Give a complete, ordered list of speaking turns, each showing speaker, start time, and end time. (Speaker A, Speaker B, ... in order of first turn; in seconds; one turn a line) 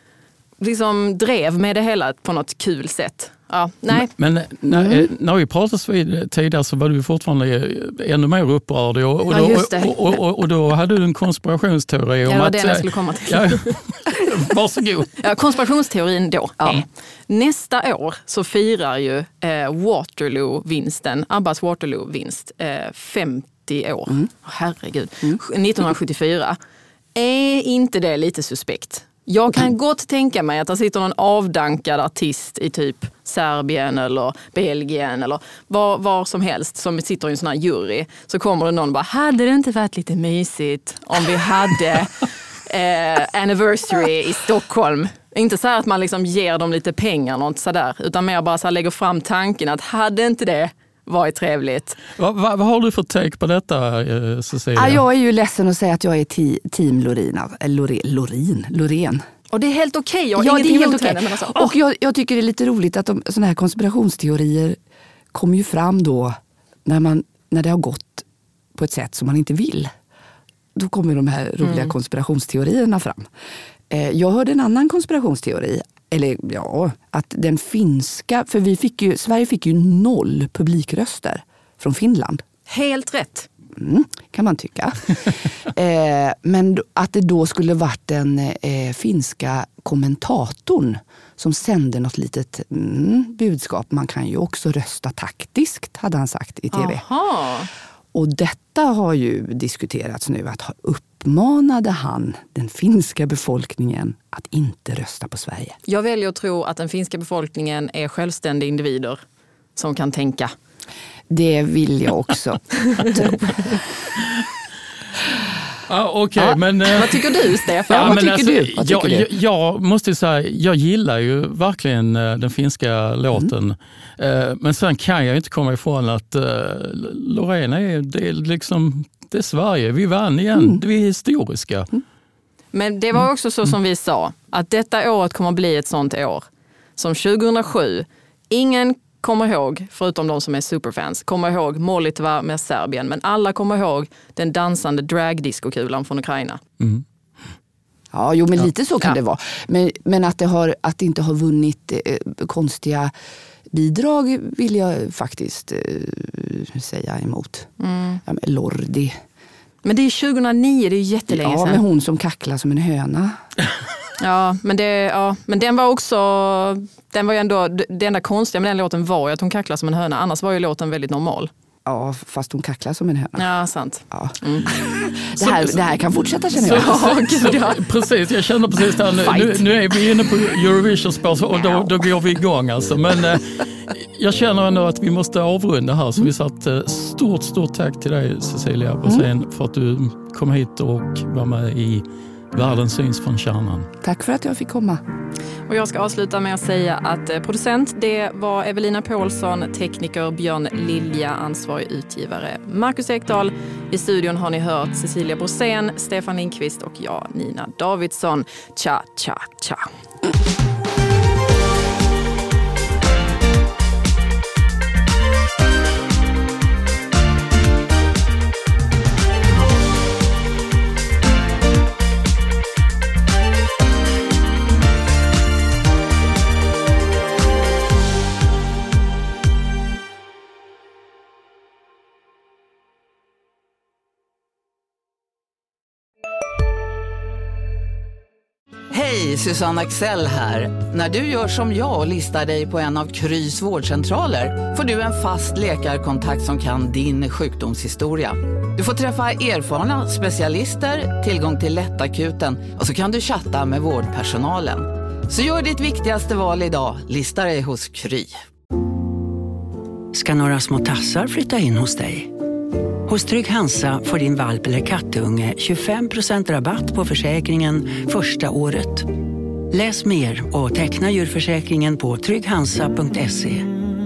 Speaker A: 0.6-4.1
Speaker B: 4.0-15.2
Speaker C: 4.7-5.1
Speaker A: 9.3-10.2
Speaker A: 12.3-13.8
Speaker A: 15.2-26.6
Speaker C: 16.6-16.9
Speaker A: 27.1-52.0
Speaker B: 52.2-55.0
Speaker C: 54.8-59.2
Speaker A: 59.5-61.7
Speaker C: 60.4-64.8
Speaker C: 65.3-69.9
Speaker C: 70.8-73.3
Speaker A: 71.6-71.9
Speaker C: 73.9-82.4
Speaker A: 82.7-83.5
Speaker C: 83.8-97.0
Speaker A: 96.7-97.7
Speaker C: 98.1-105.8
Speaker A: 105.9-109.2
Speaker A: 109.8-110.5
Speaker C: 111.3-113.8
Speaker A: 112.9-113.2
Speaker B: 115.9-117.3
Speaker A: 116.9-118.2
Speaker C: 117.9-119.3
Speaker B: 117.9-131.9
Speaker C: 130.6-130.8
Speaker A: 132.7-146.6
Speaker C: 148.1-153.1
Speaker C: 153.7-157.7
Speaker A: 157.8-158.2
Speaker C: 158.2-159.2
Speaker A: 159.8-161.8
Speaker C: 161.3-163.4
Speaker A: 164.2-171.5
Speaker C: 171.9-173.5
Speaker A: 173.4-174.7
Speaker C: 174.1-177.1
Speaker B: 175.4-175.8
Speaker B: 176.5-193.9
Speaker A: 176.7-177.8
Speaker A: 179.2-179.7
Speaker C: 194.0-195.0
Speaker A: 195.7-209.9
Speaker D: 238.9-258.4
Speaker E: 260.1-262.4
Speaker E: 263.1-269.1
Speaker E: 269.7-273.7